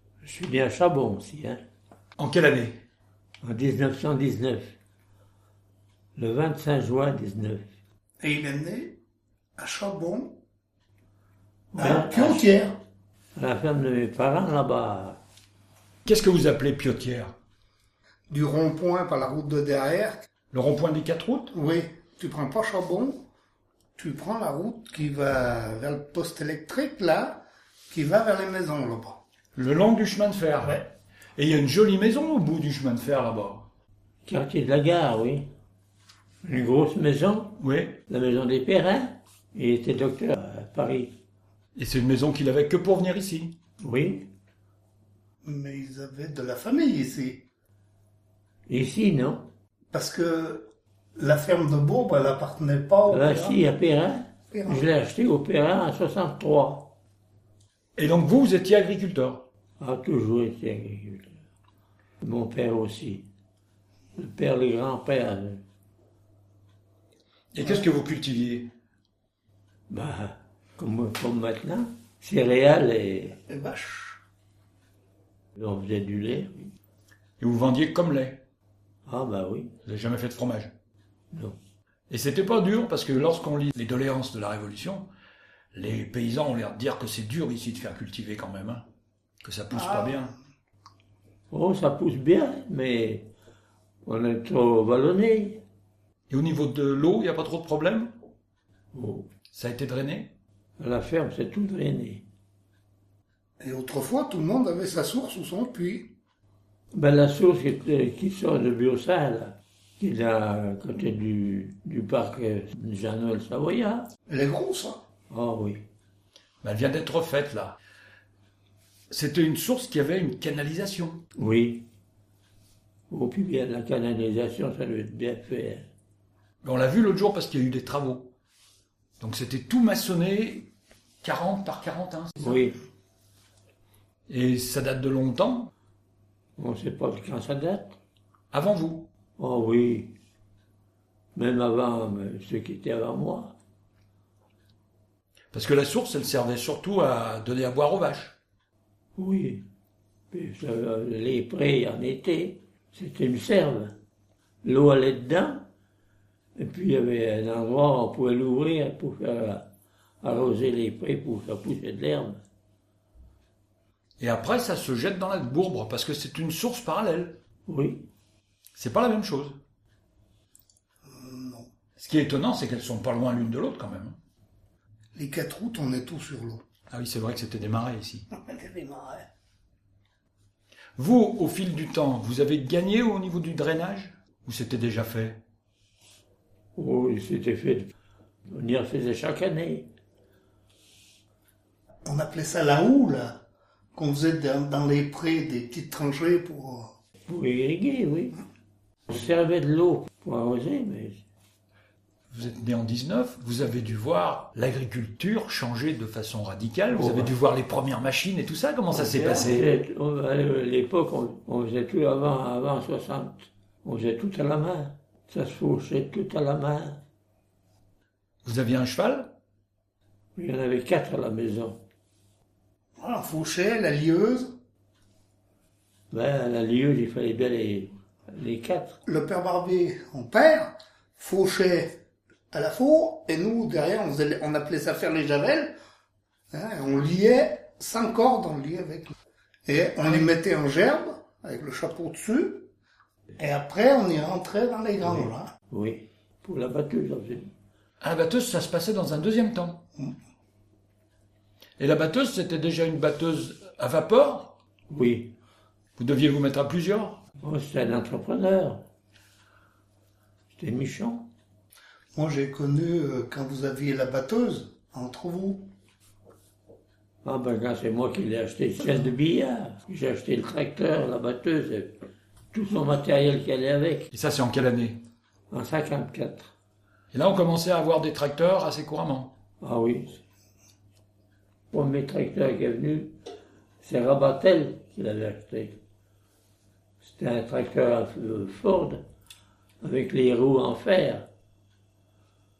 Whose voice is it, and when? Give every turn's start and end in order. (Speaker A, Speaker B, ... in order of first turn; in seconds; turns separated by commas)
Speaker A: 0.2-1.6, Speaker B: 2.2-2.8, Speaker A: 3.4-4.7, Speaker A: 6.2-7.6, Speaker C: 8.2-9.0, Speaker C: 9.6-10.4, Speaker A: 11.7-12.5, Speaker C: 11.8-12.8, Speaker A: 13.3-15.2, Speaker B: 16.0-17.3, Speaker C: 18.3-20.3, Speaker B: 20.5-21.5, Speaker C: 21.5-23.2, Speaker C: 24.0-29.2, Speaker B: 29.5-33.7, Speaker A: 34.2-35.5, Speaker A: 36.4-41.2, Speaker B: 37.6-38.0, Speaker B: 41.8-43.6, Speaker A: 43.8-44.3, Speaker C: 45.4-47.4, Speaker A: 48.7-49.5, Speaker C: 49.9-53.6, Speaker A: 53.1-56.9, Speaker C: 54.5-54.8, Speaker B: 58.0-59.5, Speaker A: 59.8-61.4, Speaker A: 62.2-63.2, Speaker A: 64.1-65.6, Speaker B: 67.5-68.7, Speaker A: 69.9-73.4, Speaker C: 73.5-74.2, Speaker A: 75.5-76.7, Speaker B: 77.4-78.4, Speaker A: 79.1-79.8, Speaker B: 79.8-80.7, Speaker A: 81.3-81.6, Speaker B: 82.1-85.1, Speaker B: 85.7-88.8, Speaker B: 89.4-90.3, Speaker C: 89.7-90.3, Speaker A: 91.5-93.3, Speaker A: 94.0-95.6, Speaker B: 96.3-98.1, Speaker A: 98.9-99.3, Speaker B: 99.5-100.3, Speaker A: 100.8-102.2, Speaker C: 103.6-106.1, Speaker A: 106.9-114.1, Speaker C: 114.3-115.0, Speaker A: 115.3-115.8, Speaker B: 116.6-117.8, Speaker B: 119.1-121.2, Speaker A: 121.3-121.8, Speaker A: 123.1-125.9, Speaker B: 126.6-128.3, Speaker B: 129.2-130.7, Speaker B: 131.2-132.6, Speaker A: 132.4-132.8, Speaker B: 134.3-135.7, Speaker A: 136.6-138.0, Speaker B: 138.5-139.1, Speaker A: 139.4-140.1, Speaker A: 141.3-143.5, Speaker B: 145.5-148.3, Speaker A: 149.2-149.7, Speaker A: 150.3-153.9, Speaker A: 154.6-155.7, Speaker A: 156.6-159.7, Speaker A: 160.2-162.4, Speaker B: 164.2-167.4, Speaker A: 167.7-168.1, Speaker B: 168.7-169.6, Speaker C: 171.0-171.7, Speaker B: 172.0-174.2, Speaker C: 175.1-176.6, Speaker B: 176.9-178.3, Speaker C: 178.3-179.3, Speaker B: 180.9-185.4, Speaker A: 186.8-187.9, Speaker A: 188.5-189.9, Speaker C: 192.0-193.4, Speaker C: 193.9-196.9, Speaker A: 197.3-198.4, Speaker A: 199.1-201.2, Speaker B: 202.3-209.7, Speaker A: 206.9-207.3, Speaker A: 208.9-217.0, Speaker B: 218.4-219.3, Speaker A: 220.3-221.8, Speaker C: 223.0-224.5, Speaker A: 226.1-229.0, Speaker C: 229.1-232.0, Speaker C: 232.5-235.7, Speaker C: 236.5-242.7, Speaker C: 243.4-245.5, Speaker A: 245.0-247.5, Speaker B: 248.0-249.8, Speaker B: 251.8-254.6, Speaker A: 254.9-255.3, Speaker B: 256.0-257.2, Speaker A: 257.4-258.8, Speaker A: 260.5-261.3, Speaker C: 262.1-265.7, Speaker A: 267.2-272.0, Speaker A: 272.5-274.1, Speaker B: 274.1-275.0, Speaker A: 275.5-276.5, Speaker B: 277.1-279.3, Speaker A: 279.6-280.2, Speaker A: 281.7-283.1, Speaker A: 283.8-285.8, Speaker A: 287.0-289.0, Speaker A: 289.8-291.3